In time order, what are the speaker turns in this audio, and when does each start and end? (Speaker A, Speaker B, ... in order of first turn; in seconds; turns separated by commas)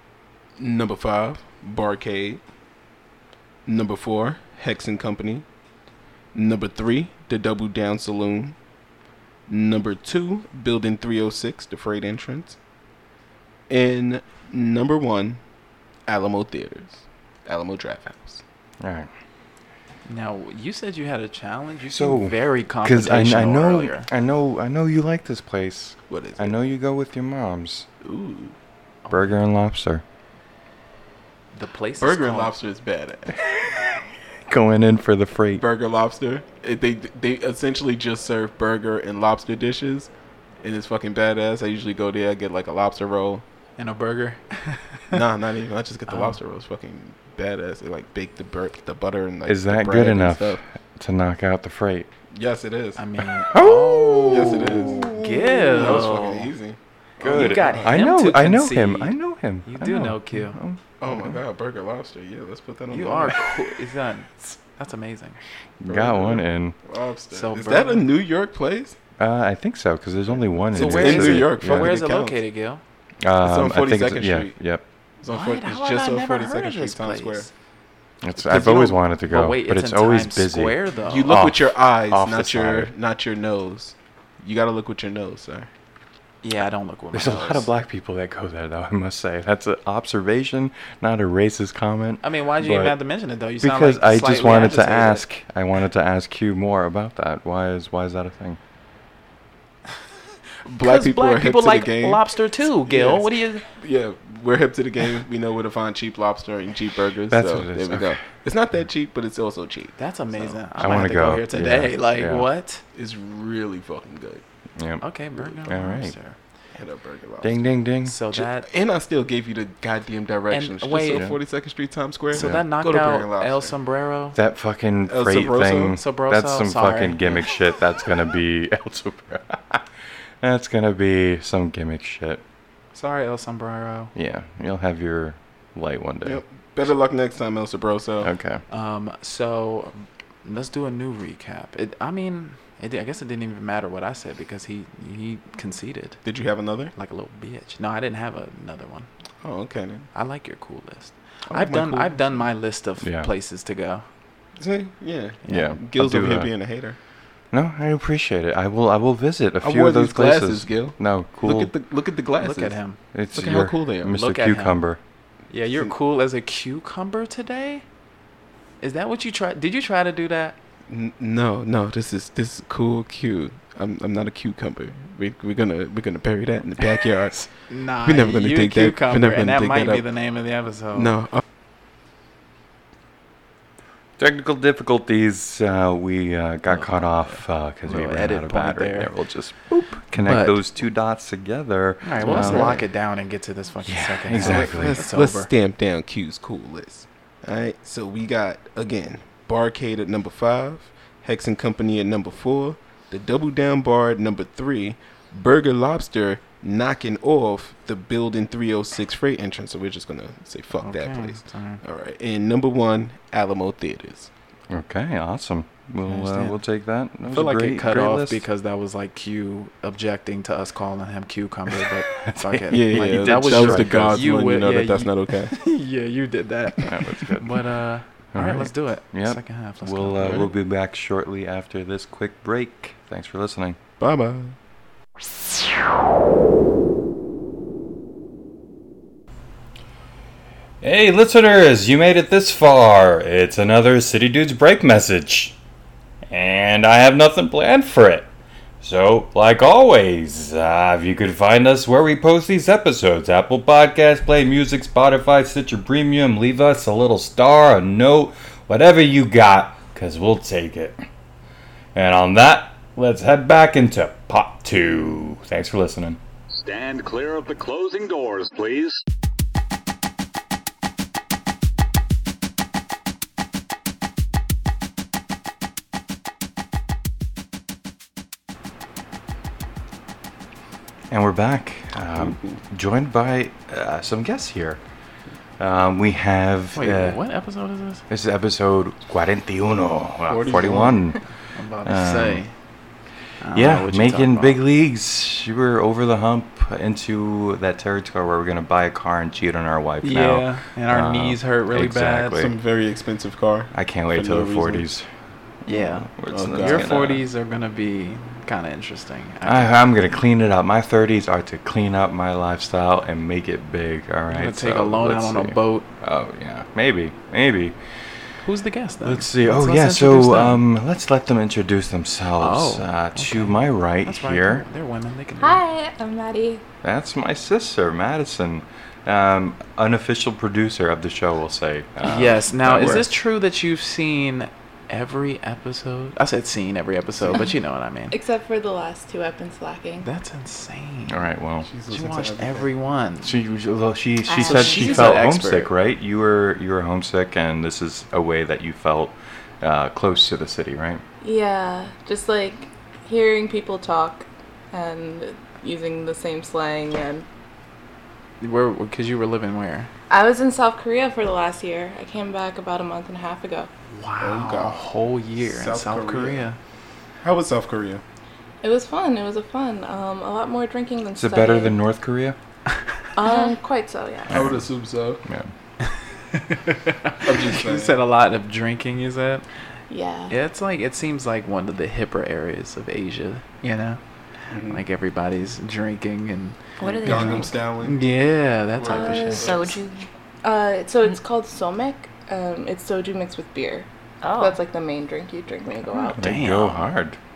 Speaker A: 0.6-2.4, Speaker A: 3.6-5.5, Speaker A: 6.3-8.6, Speaker A: 9.5-12.6, Speaker A: 13.7-15.4, Speaker A: 16.1-18.4, Speaker B: 18.8-19.1, Speaker C: 20.1-24.1, Speaker B: 21.9-27.9, Speaker A: 26.1-26.5, Speaker A: 28.0-28.5, Speaker C: 29.1-29.3, Speaker B: 29.1-30.0, Speaker C: 31.5-32.5, Speaker A: 32.0-33.4, Speaker B: 33.4-35.6, Speaker A: 35.5-40.1, Speaker A: 40.6-43.4, Speaker C: 43.8-45.2, Speaker A: 45.1-50.6, Speaker C: 46.1-46.4, Speaker B: 49.5-52.1, Speaker A: 52.3-53.0, Speaker C: 53.0-56.5, Speaker B: 53.5-56.1, Speaker A: 54.3-55.2, Speaker A: 55.7-58.0, Speaker B: 57.2-61.4, Speaker C: 57.2-60.6, Speaker A: 61.0-63.5, Speaker C: 62.9-65.4, Speaker B: 65.8-66.8, Speaker A: 65.9-69.0, Speaker C: 67.3-68.1, Speaker B: 69.2-71.9, Speaker A: 70.3-72.4, Speaker C: 70.7-72.8, Speaker B: 73.2-74.8, Speaker A: 73.4-74.6, Speaker A: 75.2-77.5, Speaker C: 75.3-77.5, Speaker B: 78.2-82.9, Speaker C: 78.3-81.4, Speaker A: 81.0-85.7, Speaker C: 86.4-87.7, Speaker B: 87.1-93.0, Speaker C: 92.2-95.2, Speaker B: 93.6-98.6, Speaker A: 100.7-111.0, Speaker C: 100.8-103.7, Speaker B: 107.3-108.2, Speaker C: 110.0-112.8, Speaker B: 110.8-112.5, Speaker A: 112.9-114.4, Speaker B: 114.8-115.0, Speaker C: 115.0-116.4, Speaker A: 115.4-115.7, Speaker B: 115.6-116.1, Speaker A: 116.7-117.7, Speaker B: 117.4-118.2, Speaker C: 118.0-118.7, Speaker A: 118.3-123.7, Speaker C: 120.5-121.3, Speaker B: 121.1-121.4, Speaker C: 122.3-124.4, Speaker B: 122.3-122.6, Speaker B: 124.3-129.9, Speaker A: 125.1-126.0, Speaker C: 125.9-127.5, Speaker B: 130.4-132.4, Speaker C: 132.9-134.1, Speaker B: 134.1-136.4, Speaker A: 136.2-138.3, Speaker B: 138.2-138.6, Speaker C: 138.7-146.2, Speaker A: 146.2-146.9, Speaker C: 146.9-149.1, Speaker A: 149.4-150.1, Speaker C: 150.1-154.0, Speaker A: 151.5-152.4, Speaker B: 153.0-153.3, Speaker A: 154.6-157.0, Speaker C: 155.4-155.7, Speaker B: 155.5-156.5, Speaker B: 157.5-161.7, Speaker A: 159.6-162.8, Speaker C: 162.4-163.0, Speaker B: 163.1-165.0, Speaker A: 163.3-164.2, Speaker C: 164.1-164.8, Speaker C: 165.5-167.8, Speaker C: 168.8-170.6, Speaker A: 170.9-177.5, Speaker C: 177.7-181.2, Speaker A: 178.0-180.1, Speaker A: 180.9-181.4, Speaker B: 184.2-192.8, Speaker C: 186.7-189.1, Speaker C: 190.2-190.6, Speaker C: 192.0-195.5, Speaker A: 192.2-192.8, Speaker B: 193.8-195.0, Speaker A: 194.3-214.3, Speaker C: 210.8-211.8, Speaker B: 214.7-218.4, Speaker C: 216.1-216.6, Speaker C: 217.2-230.5, Speaker B: 221.7-224.3, Speaker A: 222.7-225.5, Speaker B: 226.8-227.6, Speaker B: 228.3-233.8, Speaker A: 234.0-234.5, Speaker B: 240.8-245.6, Speaker B: 246.3-248.3, Speaker B: 248.8-261.0, Speaker B: 261.9-266.2, Speaker D: 266.5-269.0, Speaker B: 281.1-284.8, Speaker A: 282.2-282.4, Speaker B: 285.6-287.2, Speaker C: 286.7-288.0, Speaker B: 288.1-291.2, Speaker A: 290.3-291.0, Speaker C: 291.5-292.5, Speaker B: 291.8-292.4, Speaker C: 293.4-294.6, Speaker B: 293.5-302.5, Speaker C: 300.0-302.4, Speaker A: 302.4-304.8, Speaker B: 303.7-305.1, Speaker B: 305.6-307.2, Speaker C: 305.7-309.7, Speaker A: 306.3-306.9, Speaker B: 309.4-318.2, Speaker C: 314.3-315.9, Speaker C: 318.4-320.6, Speaker B: 319.0-324.6, Speaker C: 322.4-325.6, Speaker E: 325.4-326.6, Speaker B: 326.8-333.1, Speaker C: 332.0-338.1, Speaker A: 332.7-333.0, Speaker A: 337.2-337.4, Speaker E: 338.1-340.1, Speaker C: 340.0-341.2, Speaker B: 341.1-341.7, Speaker A: 341.6-342.7, Speaker C: 341.9-343.3, Speaker B: 343.2-351.0, Speaker F: 344.3-345.2, Speaker C: 344.4-345.7, Speaker E: 351.2-357.2, Speaker C: 358.4-359.9, Speaker E: 360.1-363.7, Speaker C: 363.9-366.6, Speaker A: 364.2-364.9, Speaker A: 365.4-366.4, Speaker A: 367.2-368.0, Speaker E: 368.6-371.8, Speaker B: 371.1-372.4, Speaker E: 373.1-374.5, Speaker B: 374.3-374.6, Speaker A: 374.3-375.2, Speaker B: 375.2-375.5, Speaker C: 376.3-379.4, Speaker A: 377.2-378.0, Speaker E: 379.9-380.3, Speaker C: 380.3-384.0, Speaker A: 384.5-384.8, Speaker C: 384.6-389.5, Speaker F: 386.8-387.6, Speaker A: 386.8-388.1, Speaker A: 388.8-389.7, Speaker F: 388.9-390.1, Speaker E: 388.9-389.7, Speaker E: 390.4-393.9, Speaker F: 394.2-394.6, Speaker E: 394.4-396.3, Speaker C: 396.0-396.9, Speaker B: 396.1-397.2